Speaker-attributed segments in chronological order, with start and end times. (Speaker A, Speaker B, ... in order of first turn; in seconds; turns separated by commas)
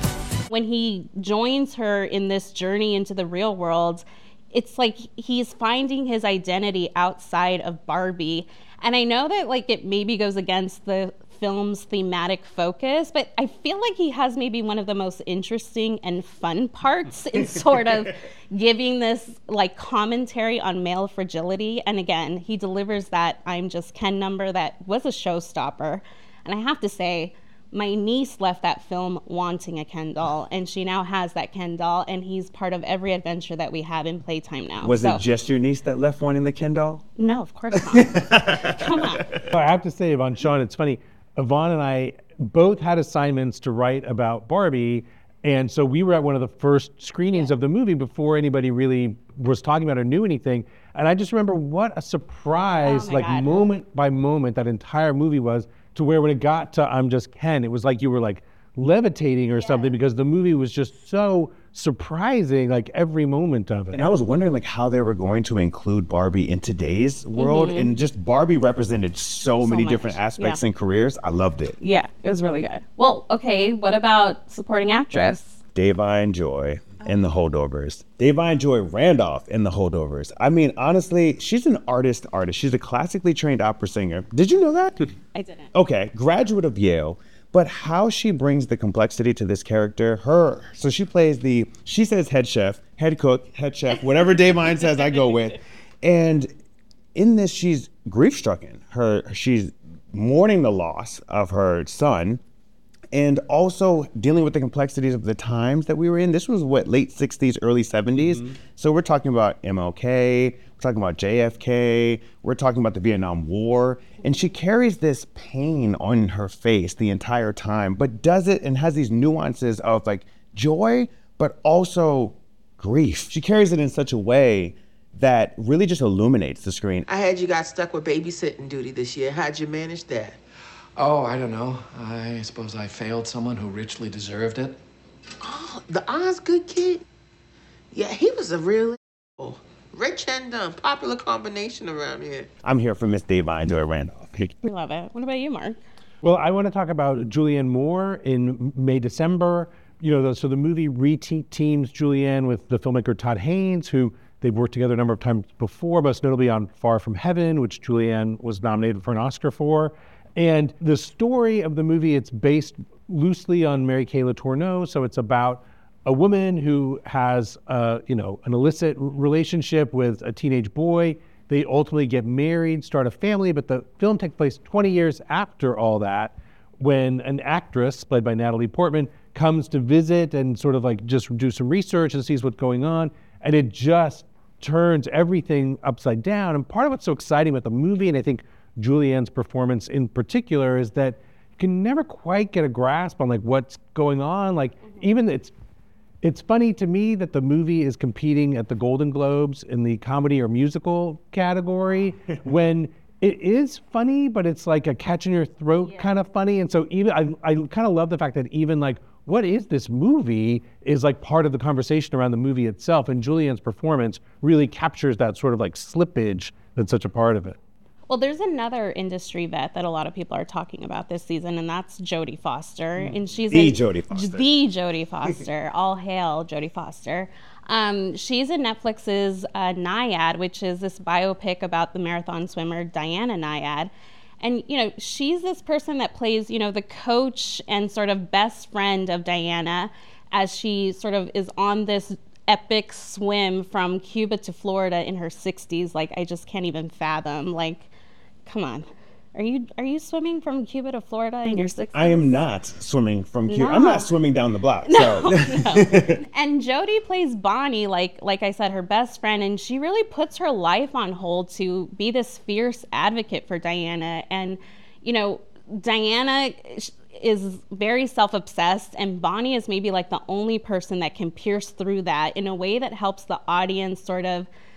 Speaker A: 0.5-35.2, Speaker B: 34.8-37.0, Speaker A: 37.2-39.2, Speaker B: 37.8-39.2, Speaker C: 39.5-64.0, Speaker A: 52.8-53.6, Speaker A: 59.6-59.9, Speaker B: 63.9-71.8, Speaker A: 67.4-67.9, Speaker A: 69.6-70.6, Speaker A: 71.8-75.6, Speaker B: 75.8-85.1, Speaker A: 85.3-85.7, Speaker B: 85.7-96.5, Speaker B: 97.2-102.4, Speaker B: 103.1-127.0, Speaker D: 127.1-130.4, Speaker E: 131.0-134.8, Speaker D: 135.4-137.0, Speaker D: 137.9-142.5, Speaker B: 142.6-144.6, Speaker A: 144.6-145.8, Speaker C: 146.2-195.5, Speaker C: 196.2-217.6, Speaker A: 218.1-247.9, Speaker B: 223.5-224.5, Speaker A: 248.5-252.4, Speaker B: 251.9-256.2, Speaker A: 253.5-254.1, Speaker A: 254.9-274.5